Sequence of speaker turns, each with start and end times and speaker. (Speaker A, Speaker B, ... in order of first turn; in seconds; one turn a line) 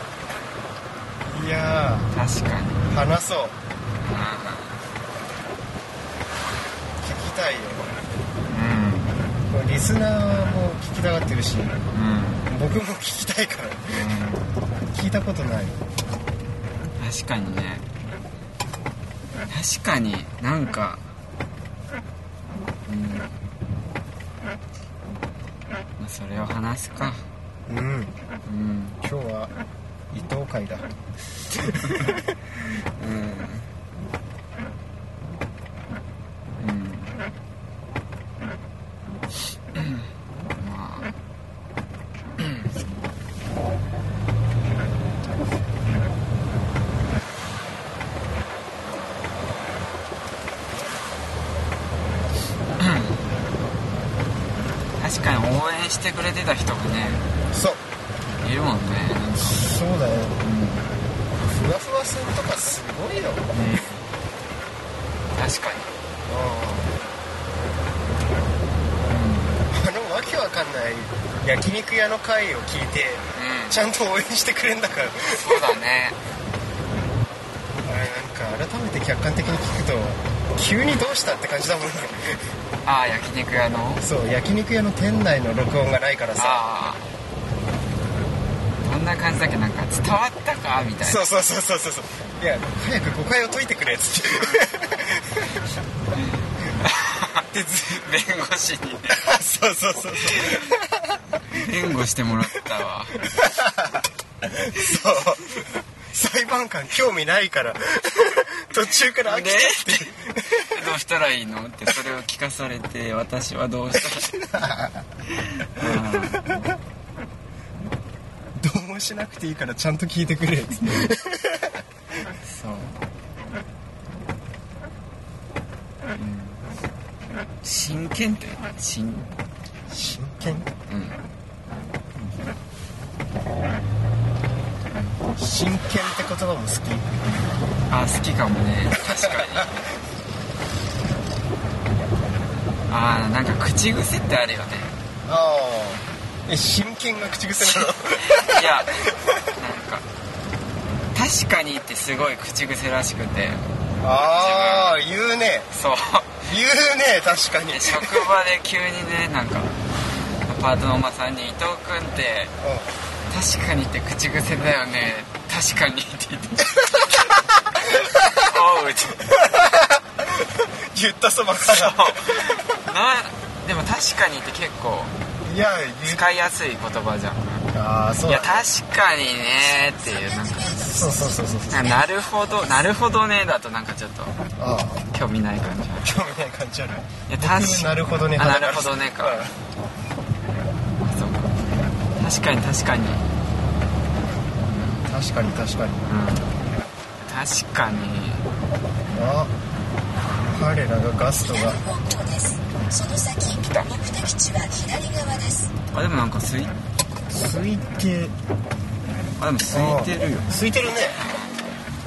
Speaker A: 1.2-2.1
Speaker B: 2.1-2.9
Speaker A: 2.9-3.6
Speaker B: 4.0-4.8
Speaker A: 7.0-8.0
Speaker B: 8.5-9.2
Speaker A: 9.5-11.8
Speaker B: 11.9-12.5
Speaker A: 12.5-14.1
Speaker B: 13.9-14.5
Speaker A: 14.9-15.8
Speaker B: 17.0-17.9
Speaker B: 19.5-21.1
Speaker B: 22.9-23.4
Speaker B: 26.0-27.2
Speaker A: 27.7-28.1
Speaker B: 28.5-29.0
Speaker A: 29.0-29.5
Speaker A: 30.1-30.9
Speaker A: 31.5-32.3
Speaker B: 33.0-33.7
Speaker B: 36.6-37.2
Speaker B: 39.8-41.1
Speaker B: 42.4-42.8
Speaker B: 52.8-53.2
Speaker B: 55.0-57.2
Speaker A: 57.5-57.8
Speaker B: 58.4-59.7
Speaker A: 59.4-60.4
Speaker B: 60.4-60.9
Speaker A: 61.5-63.5
Speaker B: 63.5-64.0
Speaker B: 65.3-65.9
Speaker A: 66.3-67.0
Speaker B: 69.1-69.6
Speaker A: 69.7-75.8
Speaker B: 73.3-73.8
Speaker B: 75.3-76.2
Speaker A: 77.8-82.4
Speaker B: 82.8-84.1
Speaker A: 84.0-86.7
Speaker B: 86.4-87.1
Speaker B: 88.8-91.3
Speaker A: 91.0-95.7
Speaker B: 96.2-99.2
Speaker A: 97.5-98.0
Speaker A: 99.1-101.4
Speaker B: 100.3-100.7
Speaker B: 101.5-103.3
Speaker A: 103.2-110.9
Speaker B: 109.2-114.3
Speaker A: 114.1-115.0
Speaker B: 115.3-116.5
Speaker A: 115.8-116.7
Speaker A: 118.6-121.8
Speaker B: 122.4-123.0
Speaker B: 126.1-126.6
Speaker B: 127.6-129.3
Speaker A: 129.9-130.7
Speaker B: 130.9-131.2
Speaker B: 134.9-135.2
Speaker A: 135.4-137.1
Speaker B: 137.9-139.8
Speaker A: 139.0-139.9
Speaker B: 142.9-144.9
Speaker A: 145.3-149.4
Speaker B: 147.6-150.1
Speaker B: 151.1-153.6
Speaker A: 154.0-155.7
Speaker B: 154.4-155.0
Speaker B: 155.7-156.5
Speaker A: 156.4-158.3
Speaker B: 157.7-159.7
Speaker B: 160.5-162.5
Speaker A: 162.6-162.9
Speaker B: 163.3-169.3
Speaker A: 167.8-168.5
Speaker A: 169.2-172.8
Speaker B: 171.6-175.1
Speaker A: 175.4-176.3
Speaker B: 176.1-177.7
Speaker A: 177.7-178.7
Speaker B: 178.2-180.9
Speaker C: 179.7-182.8
Speaker A: 180.9-182.0
Speaker B: 181.7-184.4
Speaker A: 184.6-185.1
Speaker B: 185.1-186.2
Speaker A: 186.0-189.6
Speaker B: 187.3-189.5
Speaker B: 191.0-191.7
Speaker B: 192.2-193.2
Speaker B: 194.7-195.1
Speaker A: 195.1-196.1
Speaker B: 196.1-196.5
Speaker B: 197.3-198.5
Speaker A: 199.1-199.5
Speaker A: 200.4-201.8
Speaker C: 201.4-205.7
Speaker B: 205.9-206.8
Speaker A: 207.3-208.3
Speaker B: 209.4-210.5
Speaker A: 209.7-211.2